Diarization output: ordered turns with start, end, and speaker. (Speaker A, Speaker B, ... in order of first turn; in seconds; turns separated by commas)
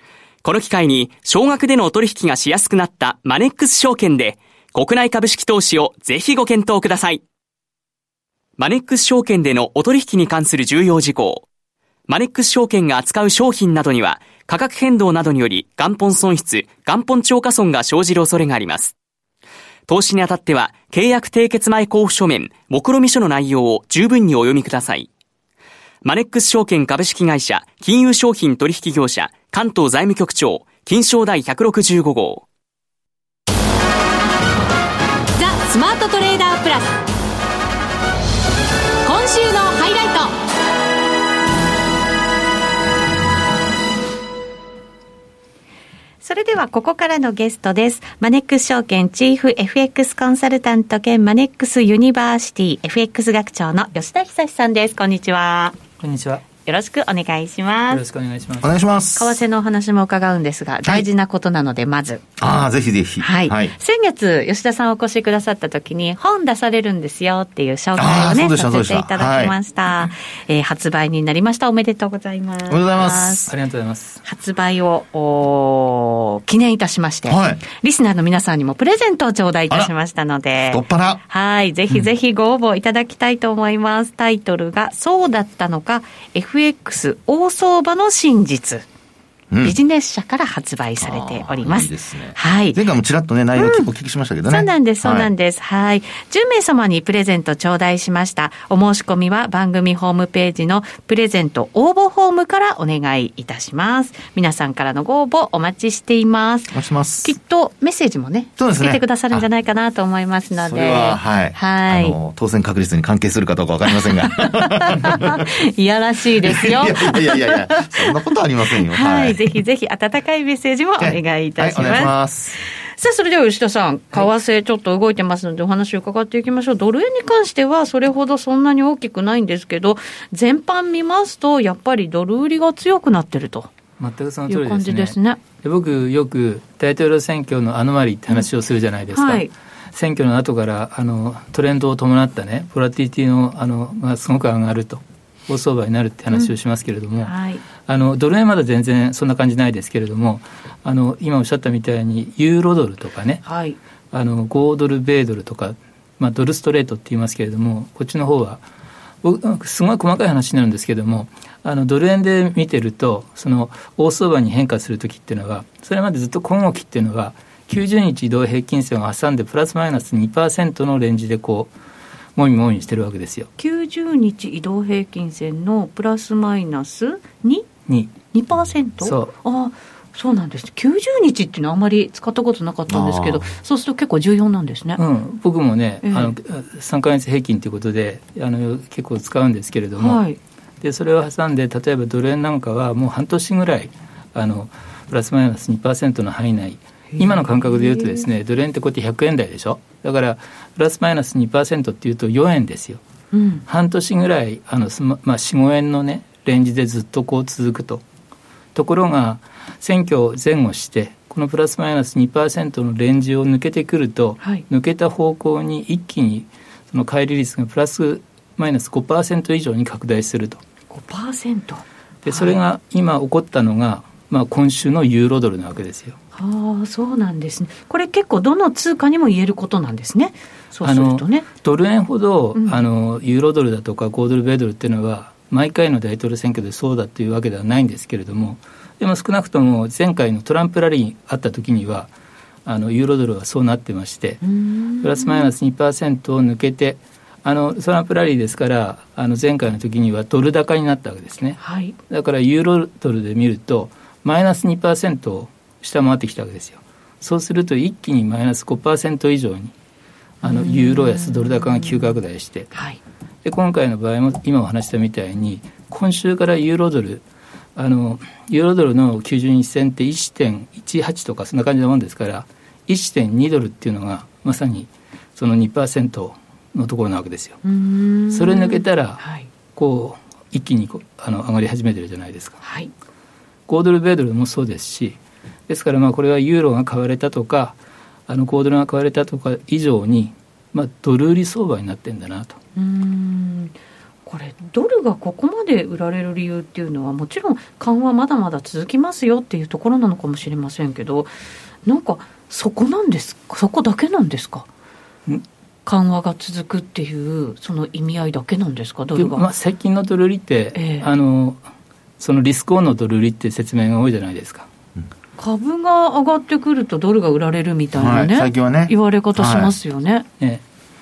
Speaker A: 0.4-7.2, Speaker A: 8.6-11.4, Speaker A: 12.1-18.9, Speaker A: 19.9-25.1, Speaker A: 26.0-32.4, Speaker B: 35.4-37.0, Speaker B: 39.0-40.3, Speaker C: 46.2-55.8, Speaker D: 56.0-56.4, Speaker C: 56.6-58.0, Speaker D: 57.9-58.7, Speaker E: 58.6-59.4, Speaker C: 59.1-62.2, Speaker E: 62.4-63.7, Speaker C: 63.2-73.5, Speaker E: 68.0-69.5, Speaker E: 72.7-73.5, Speaker D: 73.5-74.2, Speaker C: 74.2-88.8, Speaker E: 77.3-77.6, Speaker E: 80.7-81.2, Speaker C: 89.6-92.8, Speaker E: 91.0-95.3, Speaker C: 93.5-93.9, Speaker C: 94.5-112.2, Speaker E: 106.7-107.3, Speaker E: 108.6-109.5, Speaker E: 110.6-115.5, Speaker C: 114.0-118.1, Speaker E: 116.4-119.4, Speaker C: 118.8-122.1, Speaker E: 121.0-122.6, Speaker C: 123.0-133.7, Speaker D: 134.0-147.3, Speaker C: 134.5-135.4, Speaker C: 139.1-139.5, Speaker C: 147.2-147.6, Speaker D: 147.8-153.4, Speaker C: 153.4-153.8, Speaker D: 154.1-158.6, Speaker D: 159.2-171.7, Speaker D: 172.3-173.5, Speaker C: 173.6-177.7, Speaker D: 177.9-178.1, Speaker C: 178.3-185.0, Speaker D: 179.0-179.3, Speaker E: 182.9-183.5, Speaker D: 185.0-190.2, Speaker C: 186.0-186.3, Speaker C: 190.0-190.4, Speaker D: 190.8-203.0, Speaker C: 197.1-198.3, Speaker C: 203.3-203.6, Speaker D: 203.7-208.0, Speaker D: 208.7-220.6, Speaker C: 220.9-222.5, Speaker D: 222.2-226.2, Speaker C: 226.3-231.5, Speaker D: 230.8-242.1, Speaker C: 232.6-232.8, Speaker D: 242.6-244.4, Speaker C: 244.4-245.5, Speaker D: 245.0-259.7, Speaker C: 251.6-251.9, Speaker D: 260.4-262.7, Speaker C: 260.4-262.1, Speaker C: 262.7-263.0, Speaker D: 263.4-267.2, Speaker D: 267.7-277.6, Speaker C: 277.6-279.5, Speaker D: 278.3-279.2, Speaker D: 279.7-282.6, Speaker C: 282.6-282.9, Speaker D: 283.7-292.6, Speaker C: 292.8-293.7, Speaker C: 294.2-301.3, Speaker C: 301.8-304.7, Speaker C: 305.9-309.4, Speaker D: 309.1-311.6, Speaker C: 310.7-311.1, Speaker D: 312.2-314.7, Speaker C: 315.4-320.2, Speaker E: 317.9-319.7